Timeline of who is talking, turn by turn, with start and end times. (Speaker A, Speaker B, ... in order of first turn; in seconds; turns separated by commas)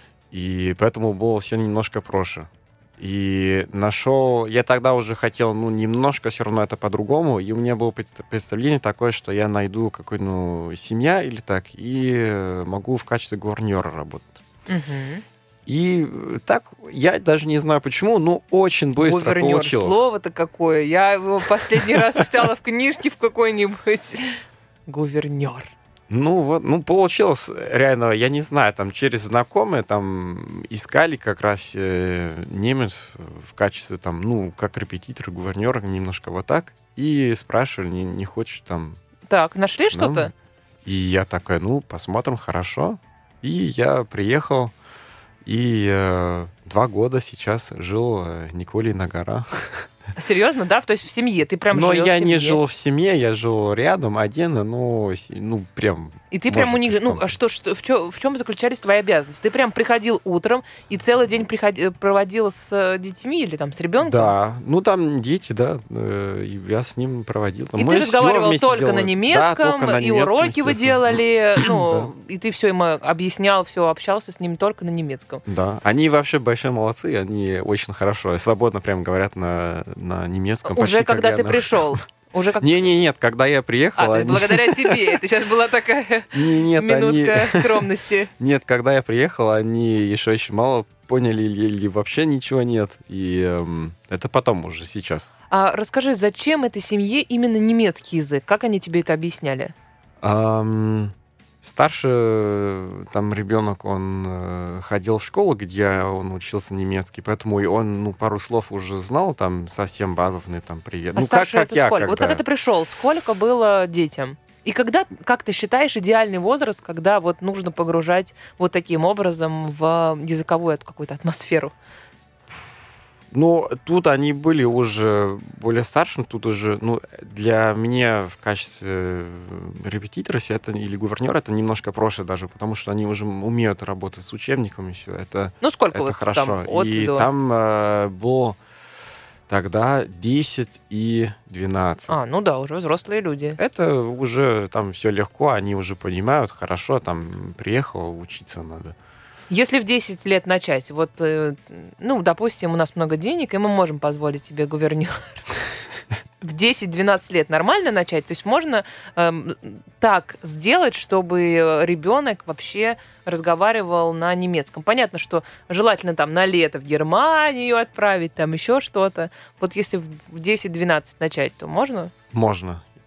Speaker A: 0.3-14.4, Speaker B: 14.7-15.2, Speaker A: 15.7-20.0, Speaker B: 19.0-25.7, Speaker A: 21.8-22.2, Speaker A: 26.1-39.0, Speaker B: 39.3-40.3, Speaker A: 39.9-40.3, Speaker A: 40.8-44.7, Speaker A: 45.4-49.9, Speaker B: 50.2-52.6, Speaker A: 51.7-57.4, Speaker B: 56.3-64.3, Speaker A: 64.0-72.1, Speaker B: 67.8-75.4, Speaker A: 75.5-82.0, Speaker B: 80.7-82.9, Speaker A: 82.6-85.2, Speaker B: 84.0-88.3, Speaker A: 86.3-87.9, Speaker A: 88.4-95.3, Speaker B: 95.5-99.7, Speaker A: 100.2-112.4, Speaker B: 111.1-121.7, Speaker A: 123.3-138.6, Speaker B: 135.6-137.3, Speaker A: 139.5-142.2, Speaker B: 142.1-143.6, Speaker A: 143.6-148.9, Speaker B: 149.5-155.4, Speaker B: 156.4-172.1, Speaker A: 172.3-172.8